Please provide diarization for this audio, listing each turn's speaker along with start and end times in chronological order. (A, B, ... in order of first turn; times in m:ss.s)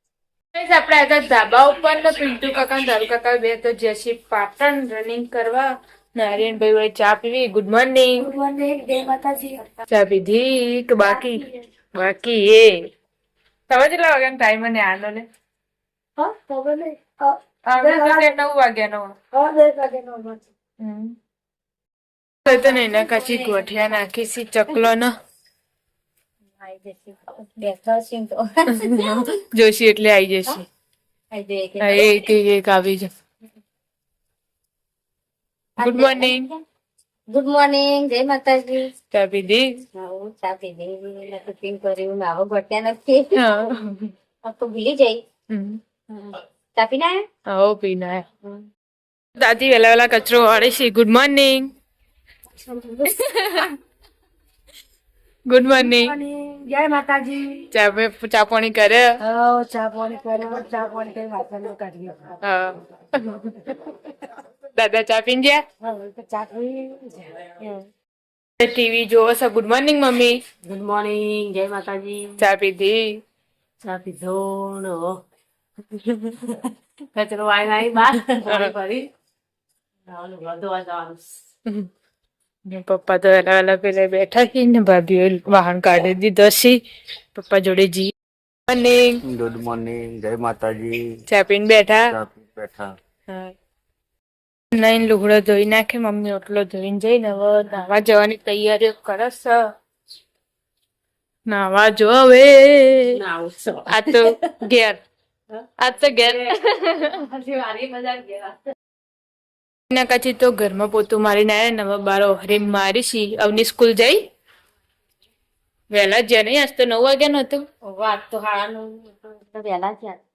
0:00.5-0:08.3 A
0:08.2-0:09.7 B
0:09.9-0:12.9 A
0:11.0-0:11.6 B
0:13.7-0:15.3 A
0:16.2-0:18.3 B
0:17.6-0:19.1 A
0:19.3-0:20.4 B
0:20.8-0:21.2 A
0:22.4-0:25.2 A
0:22.4-0:24.1 B
0:26.6-0:29.1 B
0:28.7-0:30.6 A
0:31.3-0:32.3 B
0:31.8-0:33.1 A
0:35.8-0:36.5 B
0:35.8-0:36.5 A
0:37.3-0:38.9 B
0:39.1-0:39.7 A
0:40.0-0:43.6 B
0:43.3-0:44.1 A
0:44.4-0:45.2 B
0:45.5-0:45.8 A
0:46.2-0:47.3 B
0:47.4-0:48.2 A
0:49.3-0:51.7 A
0:52.6-0:53.6 B
0:53.3-0:53.6 A
0:55.5-0:56.1 A
0:55.7-0:57.7 B
0:57.7-0:59.2 A
0:59.2-1:02.4 B
1:02.4-1:03.6 A
1:04.7-1:05.6 A
1:05.8-1:07.8 B
1:08.6-1:10.4 A
1:10.6-1:12.3 C
1:12.4-1:13.2 A
1:13.8-1:15.1 C
1:16.0-1:16.3 A
1:17.1-1:19.1 C
1:18.4-1:18.8 A
1:20.1-1:21.2 C
1:22.6-1:26.8 A
1:27.3-1:28.1 A
1:28.7-1:29.2 A
1:29.2-1:31.2 D
1:31.3-1:32.1 A
1:32.1-1:32.9 D
1:33.3-1:33.5 A
1:34.7-1:39.7 A
1:41.4-1:43.2 A
1:43.2-1:44.0 C
1:43.9-1:45.0 A
1:45.8-1:47.0 A
1:47.4-1:48.5 C
1:49.9-1:54.3 A
1:55.9-1:57.7 A
1:57.8-2:00.2 B